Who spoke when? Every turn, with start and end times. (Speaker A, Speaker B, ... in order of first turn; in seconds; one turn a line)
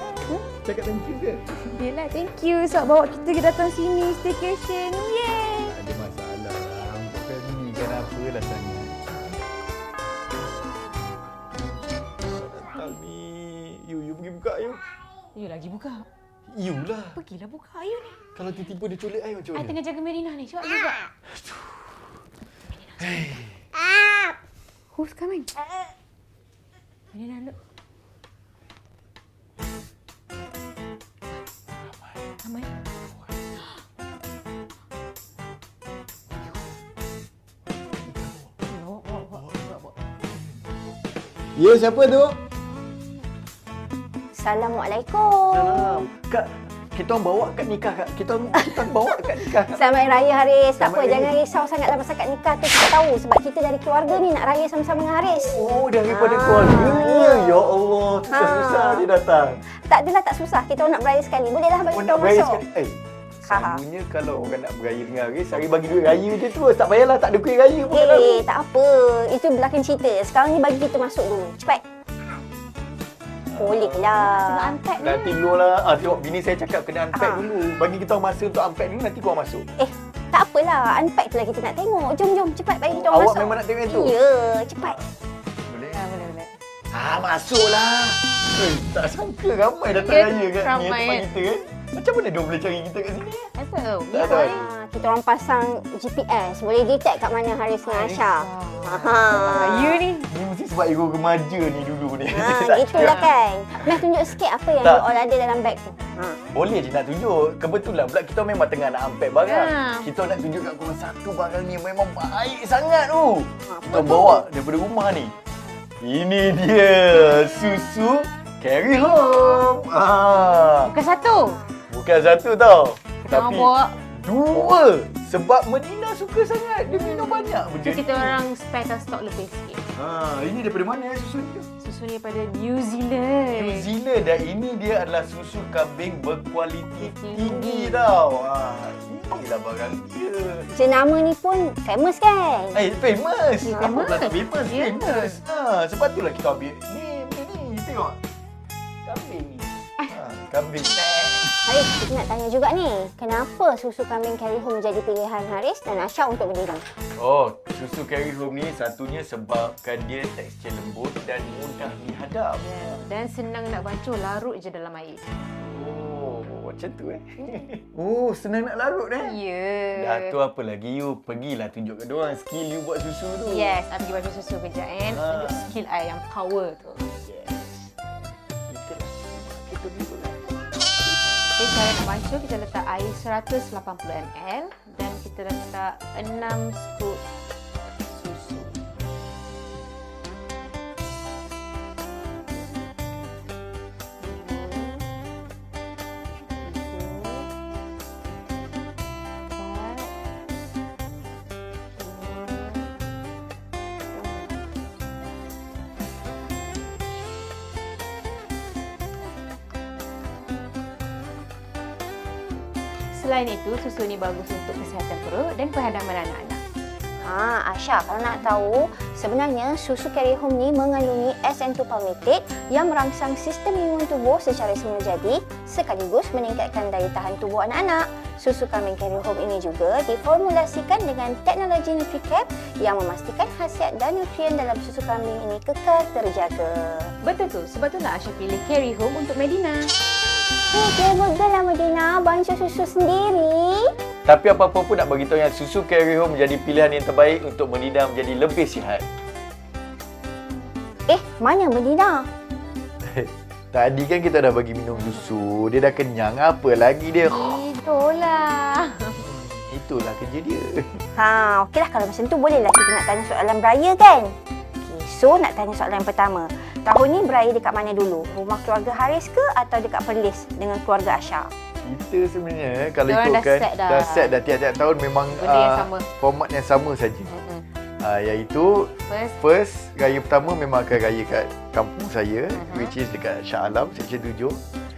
Speaker A: 0.6-1.8
Speaker B: 1.6-5.7
Speaker A: 5.6-9.2
Speaker A: 12.3-14.8
Speaker B: 15.3-16.1
Speaker A: 16.5-17.2
Speaker B: 17.1-18.2
Speaker A: 18.4-19.8
Speaker B: 19.5-21.1
Speaker A: 21.3-22.1
Speaker B: 22.8-23.1
Speaker A: 23.0-23.6
Speaker B: 24.9-25.5
Speaker B: 27.1-27.6
Speaker B: 32.4-32.7
Speaker A: 36.4-36.6
Speaker A: 38.0-38.5
Speaker B: 38.7-39.4
Speaker A: 39.1-40.6
Speaker A: 41.5-42.4
Speaker C: 44.3-46.1
Speaker A: 45.4-50.2
Speaker C: 48.6-57.7
Speaker A: 50.8-51.4
Speaker A: 55.5-59.6
Speaker C: 58.3-59.0
Speaker C: 59.7-62.6
Speaker A: 61.9-68.4
Speaker C: 63.5-63.8
Speaker C: 67.9-71.8
Speaker A: 73.5-74.3
Speaker C: 73.5-74.8
Speaker B: 74.2-75.4
Speaker A: 75.0-79.7
Speaker C: 77.1-77.5
Speaker C: 79.8-85.0
Speaker A: 82.9-84.2
Speaker A: 85.7-86.0
Speaker B: 85.9-86.5
Speaker A: 86.9-93.5
Speaker B: 89.9-91.2
Speaker B: 93.5-94.7
Speaker A: 94.1-94.6
Speaker C: 94.2-100.0
Speaker B: 97.8-100.3
Speaker A: 99.2-103.2
Speaker C: 102.3-106.4
Speaker B: 103.0-103.3
Speaker A: 103.8-104.1
Speaker A: 104.8-105.1
Speaker A: 106.5-115.3
Speaker B: 109.4-110.1
Speaker C: 113.7-114.4
Speaker A: 116.0-120.9
Speaker B: 120.8-121.6
Speaker A: 121.9-128.4
Speaker B: 123.2-124.0
Speaker B: 126.9-129.8
Speaker A: 129.9-131.7
Speaker B: 131.8-133.8
Speaker A: 133.5-140.7
Speaker B: 137.0-138.1
Speaker C: 140.7-142.8
Speaker A: 142.7-148.2
Speaker B: 143.7-145.4
Speaker C: 143.8-144.2
Speaker A: 149.1-151.6
Speaker C: 151.7-156.9
Speaker A: 157.2-163.0
Speaker B: 162.6-165.2
Speaker A: 165.6-169.3
Speaker B: 169.2-170.3
Speaker A: 169.9-173.8
Speaker B: 173.4-177.1
Speaker A: 175.1-175.6
Speaker A: 177.2-178.1
Speaker A: 178.7-181.2
Speaker B: 181.6-187.2
Speaker B: 188.1-188.8
Speaker C: 194.2-195.0
Speaker C: 196.6-197.4
Speaker C: 199.6-199.9
Speaker B: 199.7-200.0
Speaker C: 202.0-202.8
Speaker C: 204.1-204.5
Speaker B: 213.1-216.6
Speaker C: 217.2-237.1
Speaker B: 237.2-239.9
Speaker C: 240.7-243.9
Speaker A: 244.2-249.1
Speaker C: 251.1-252.3
Speaker A: 253.0-257.6
Speaker B: 257.3-259.2
Speaker A: 259.2-261.0
Speaker C: 261.2-271.5
Speaker A: 271.8-277.3
Speaker B: 273.1-274.3
Speaker B: 275.3-276.0
Speaker B: 277.3-277.6
Speaker A: 278.0-284.6
Speaker B: 279.1-279.4
Speaker B: 282.5-282.9